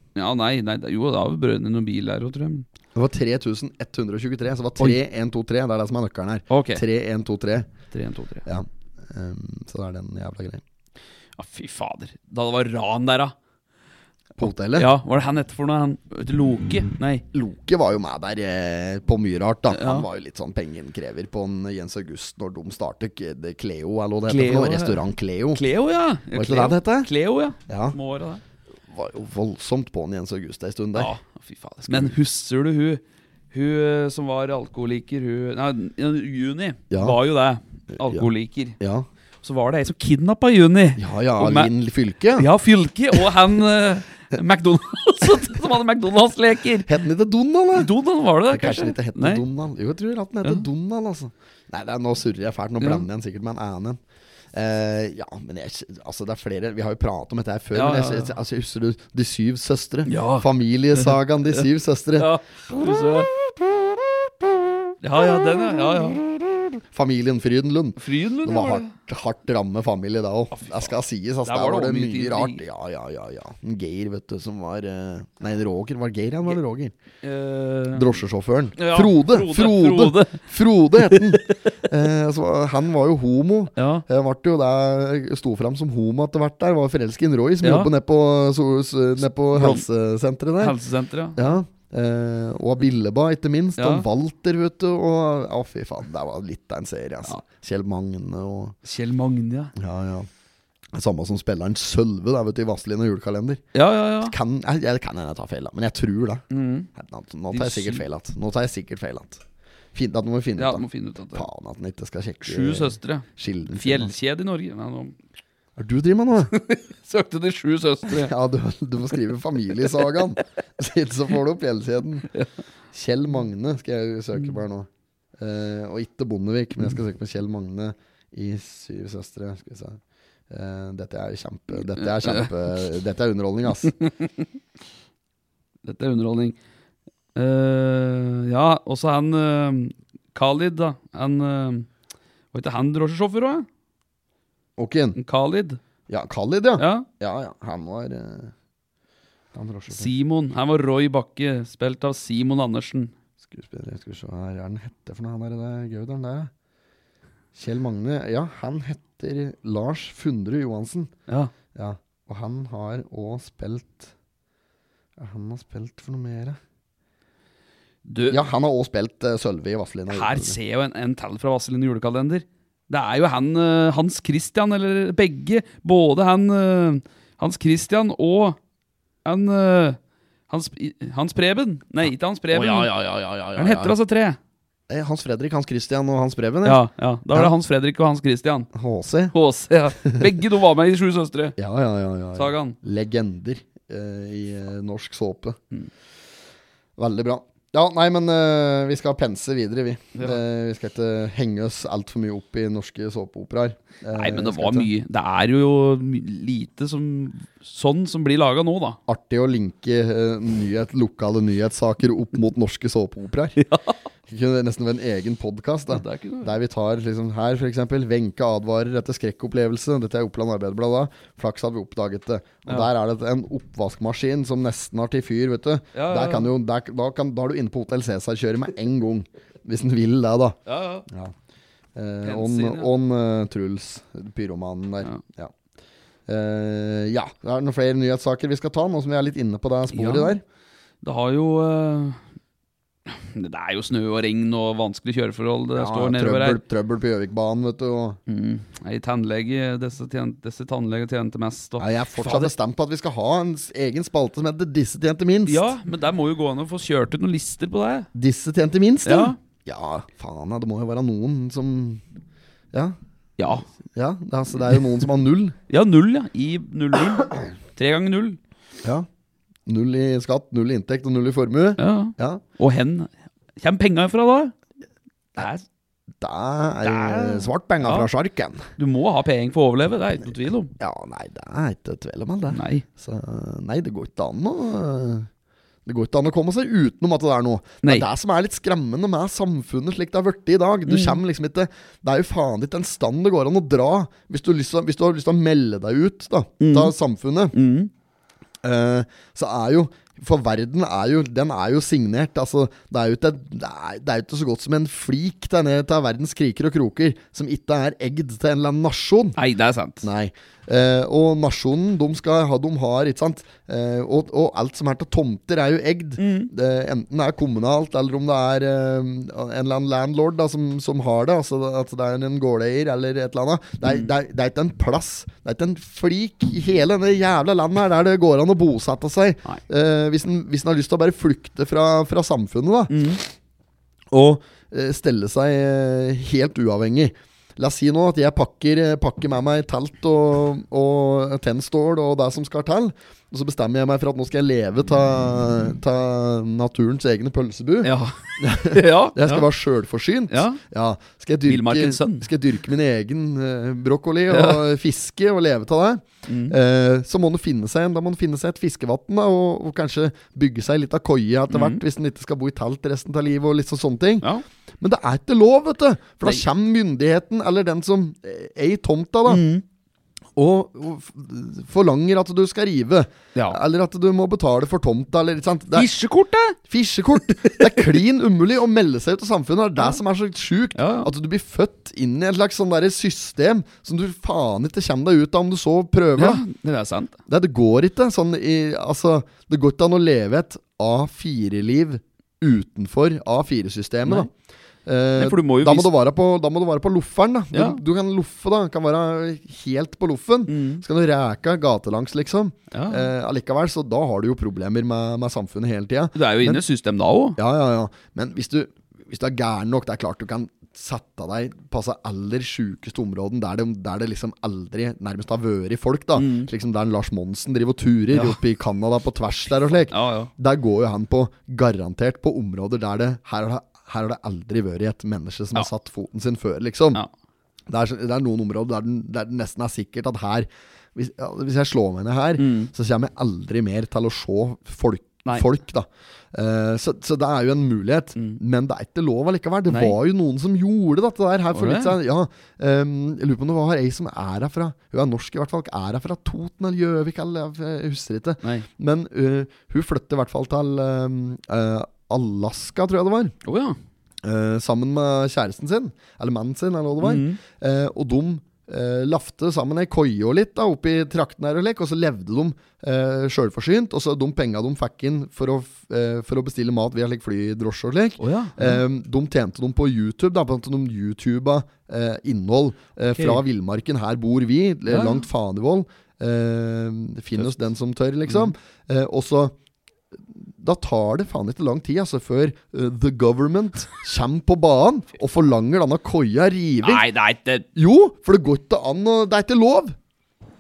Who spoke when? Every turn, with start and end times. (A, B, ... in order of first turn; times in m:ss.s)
0:00.1-0:02.6 A
0:02.9-0:07.7 B
0:06.5-0:06.8 A
0:07.9-0:08.4 A
0:08.4-0:10.6 B
0:11.4-0:13.3 A
0:14.4-0:14.9 B
0:14.4-0:17.2 A
0:17.3-0:25.6 B
0:19.7-0:20.1 A
0:24.3-0:28.4 A
0:26.3-0:27.1 B
0:27.7-0:28.0 B
0:28.9-0:31.1 B
0:30.9-0:38.8 A
0:36.9-0:37.2 B
0:37.9-0:38.3 B
0:38.8-0:39.1 B
0:39.4-0:41.7 A
0:41.0-0:42.5 B
0:42.4-0:47.0 A
0:46.8-0:47.9 B
0:47.7-0:49.4 A
0:48.5-0:54.0 B
0:52.8-0:53.0 A
0:54.5-1:02.3 B
0:57.7-0:58.3 A
1:00.0-1:01.2 A
1:02.2-1:03.3 A
1:05.0-1:06.2 A
1:06.9-1:16.9 B
1:08.0-1:08.9 A
1:10.5-1:12.6 A
1:17.2-1:18.2 A
1:17.9-1:30.8 B
1:18.8-1:20.4 A
1:21.0-1:21.5 A
1:23.8-1:24.0 A
1:27.6-1:27.9 A
1:29.5-1:29.8 A
1:30.6-1:31.6 A
1:31.4-1:38.8 B
1:33.8-1:34.1 A
1:38.8-1:39.7 A
1:39.8-1:40.3 B
1:40.9-1:43.6 B
1:43.7-1:44.3 A
1:44.2-1:49.4 B
1:46.5-1:46.9 A
1:47.5-1:48.0 A
1:49.9-1:54.1 B
1:50.6-1:51.4 A
1:52.4-1:55.2 A
1:55.8-1:56.5 B
1:56.5-1:58.3 A
1:58.1-2:02.3 B
2:02.9-2:14.0 B
2:11.8-2:12.5 A
2:14.0-2:14.4 A
2:15.8-2:16.6 A
2:17.3-2:21.9 A
2:22.5-2:23.7 A
2:24.8-2:25.2 B
2:25.2-2:25.8 A
2:26.1-2:28.5 B
2:26.8-2:27.1 A
2:29.5-2:30.1 B
2:29.9-2:33.1 A
2:33.4-2:36.5 B
2:37.5-2:41.1 B
2:41.7-2:44.1 B
2:45.2-2:46.6 B
2:48.0-2:48.4 A
2:48.3-2:50.6 B
2:50.1-2:58.6 A
2:59.2-3:02.9 A
3:02.5-3:04.0 B
3:03.6-3:04.4 A
3:04.9-3:07.5 B
3:06.6-3:08.7 A
3:08.7-3:09.3 B
3:09.3-3:11.6 A
3:11.6-3:15.6 B
3:12.4-3:12.8 A
3:17.0-3:24.9 B
3:24.1-3:29.0 A
3:29.1-3:33.6 B
3:33.6-3:34.0 A
3:34.3-3:51.3 B
3:35.9-3:36.5 A
3:45.9-3:46.5 A
3:50.7-3:51.0 A
3:51.9-3:55.5 B
3:52.2-3:52.9 A
3:56.3-4:00.4 B
3:59.9-4:00.3 A
4:01.0-4:02.2 A
4:03.0-4:06.6 A
4:05.7-4:08.2 B
4:08.3-4:12.5 A
4:11.8-4:15.7 B
4:15.4-4:18.1 A
4:18.1-4:22.0 B
4:19.0-4:19.4 A
4:23.4-4:23.6 A
4:23.9-4:25.6 B
4:25.7-4:28.4 A
4:29.7-4:32.4 B
4:31.8-4:34.5 A
4:35.4-4:35.6 A
4:36.2-4:38.7 B
4:36.8-4:38.1 A
4:38.8-4:40.7 A
4:40.8-4:45.3 B
4:42.5-4:42.8 A
4:45.8-4:57.5 B
4:50.9-4:51.2 A
4:56.6-4:56.9 A
4:57.5-4:57.9 A
4:58.6-5:09.4 B
5:09.4-5:10.1 A
5:10.0-5:33.0 B
5:16.2-5:16.5 A
5:23.8-5:24.1 A
5:32.9-5:33.2 A
5:34.1-6:04.3 B
5:47.8-5:49.5 A
5:50.3-5:50.6 A
5:51.4-5:52.3 A
5:54.3-5:54.6 A
5:56.3-5:56.6 A
6:01.5-6:01.8 A
6:04.8-6:09.4 B
6:09.3-6:09.6 A
6:10.4-6:15.9 B
6:15.7-6:16.6 A
6:16.7-6:26.4 B
6:17.4-6:17.8 A
6:20.8-6:21.1 A
6:26.2-6:27.2 A
6:27.3-6:34.3 B
6:34.8-6:46.6 B
6:35.2-6:35.9 A
6:37.5-6:37.8 A
6:40.5-6:40.8 A
6:42.7-6:43.1 A
6:46.1-6:47.4 A
6:47.4-7:07.0 B
6:56.2-6:56.5 A
6:58.1-6:58.4 A
6:59.9-7:00.3 A
7:07.7-7:33.3 B
7:12.4-7:12.7 A
7:19.7-7:20.0 A
7:21.5-7:22.0 A
7:33.4-7:33.8 A
7:34.2-7:59.5 B
7:37.0-7:37.4 A
7:48.2-7:48.8 A
7:53.1-7:53.4 A
7:54.9-7:55.2 A
7:58.3-7:58.5 A
8:00.3-8:07.0 B
8:06.8-8:07.6 A
8:07.7-8:10.0 B